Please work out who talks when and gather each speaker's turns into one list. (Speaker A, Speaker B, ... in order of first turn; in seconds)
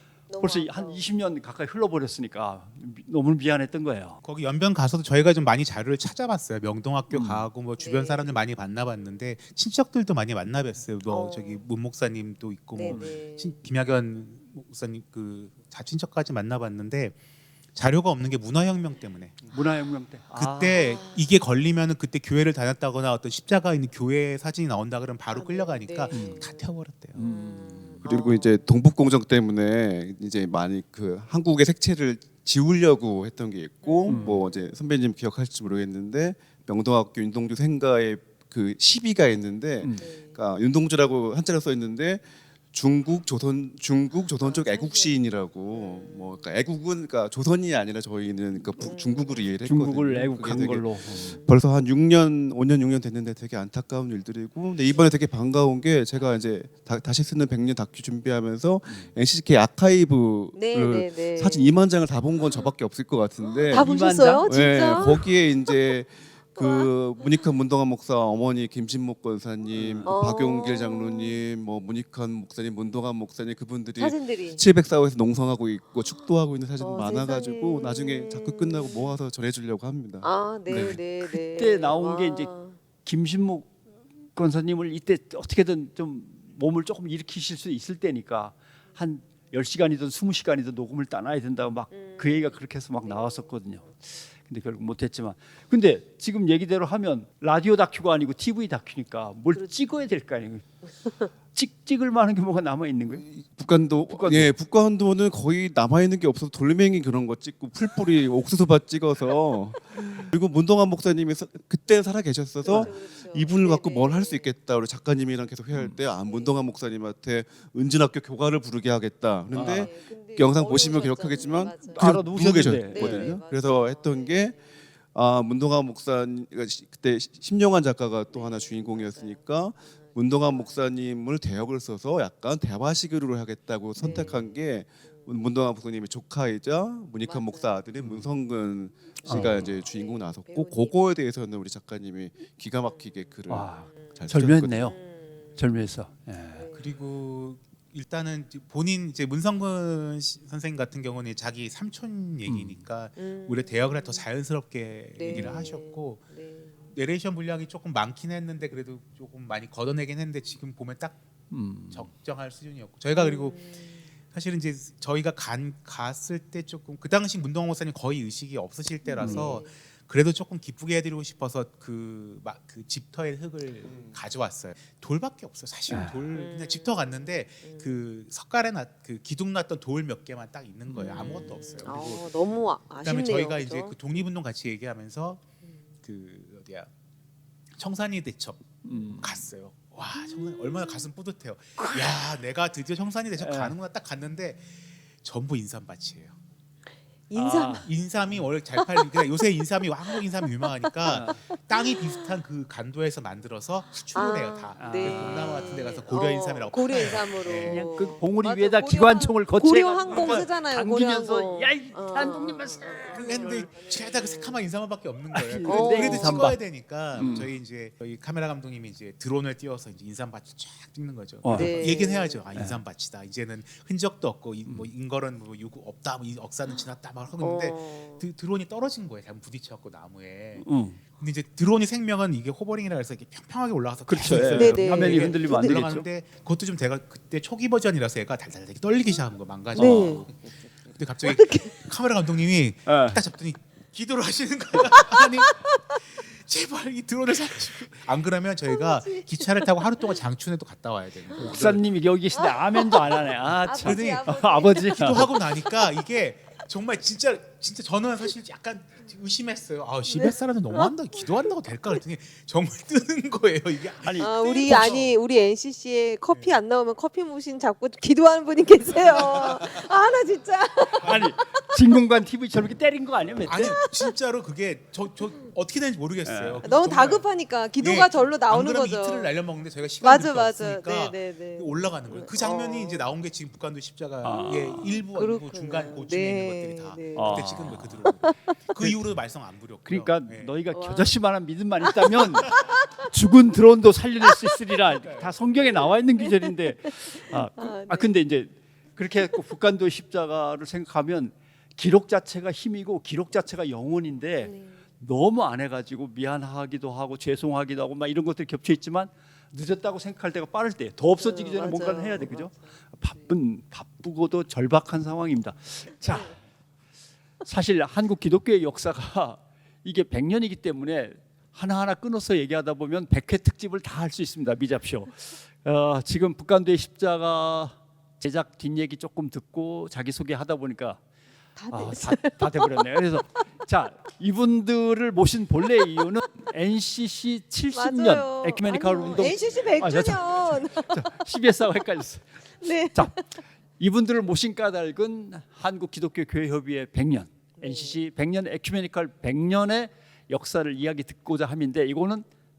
Speaker A: 0.3-1.1, 7.8-8.4, 11.1-11.6, 12.7-13.7, 20.7-21.3, 25.3-28.6, 33.8-34.5, 40.0-40.4, 44.4-46.5, 48.8-49.5, 60.5-61.7, 63.7-65.2, 66.6-66.9, 70.0-71.4, 74.0-74.6, 76.8-79.1, 80.2-82.8, 91.9-93.9, 110.0-110.3, 112.6-114.5, 116.2-116.6, 119.6-122.1, 122.9-124.8, 128.3-130.8, 134.0-135.3, 137.2-137.8, 139.3-141.0, 142.8-143.4, 143.9-144.2, 144.8-145.6, 146.5-146.9, 153.2-154.3, 155.2-156.9, 163.2-164.0, 169.2-169.7, 176.3-177.9, 181.1-184.2, 190.7-191.0, 197.3-197.9, 198.8-199.2, 200.1-200.7, 201.7-202.2, 204.1-214.6, 215.6-216.5, 221.5-222.5, 227.4-228.2, 234.4-235.8, 239.7-240.2, 241.2-241.9, 245.2-245.8, 248.7-250.2, 252.3-256.0, 260.1-261.5, 264.2-271.7, 273.5-274.1, 276.6-279.3, 280.0-283.1, 284.4-288.4, 290.7-291.2, 291.8-293.0, 297.0-298.1, 304.4-304.8, 311.2-312.8, 331.6-332.8, 337.7-341.0, 342.6-343.2, 347.6-348.0
Speaker B: 0.4-4.2, 7.1-7.5, 12.8-13.2, 19.4-20.9, 26.1-26.5, 27.1-28.0, 34.1-34.5, 49.6-51.4, 63.7-65.2, 69.7-70.2, 80.7-82.5, 83.0-83.7, 84.3-100.8, 101.5-103.2, 104.0-104.5, 112.6-112.9, 115.7-116.0, 119.5-119.9, 121.9-123.3, 134.0-134.3, 138.0-138.3, 139.2-139.7, 143.5-145.0, 145.6-146.7, 152.4-152.8, 155.3-155.7, 161.5-162.1, 169.2-169.6, 175.9-176.3, 180.9-181.6, 188.8-189.4, 193.3-193.8, 197.3-197.9, 201.0-201.4, 204.8-205.9, 207.5-213.7, 215.3-216.6, 217.1-217.5, 221.4-221.9, 222.5-222.8, 230.6-231.0, 234.1-236.1, 239.7-240.3, 242.8-243.2, 251.3-255.3, 264.0-265.0, 270.9-273.8, 276.2-276.7, 284.2-285.0, 287.1-288.1, 289.9-316.4, 317.4-331.0, 331.7-343.2, 343.8-352.2
Speaker C: 4.2-17.1, 17.7-19.4, 20.4-27.3, 146.7-156.2, 156.9-161.2, 161.9-185.4, 186.0-186.9, 187.8-188.6, 189.2-196.3, 197.8-207.9, 210.0-210.5, 213.1-251.8, 253.8-265.1, 266.3-266.6, 269.0-269.6, 273.4-277.3, 277.8-290.5
Speaker D: 28.0-63.9, 64.4-81.0, 103.1-124.6, 125.1-144.9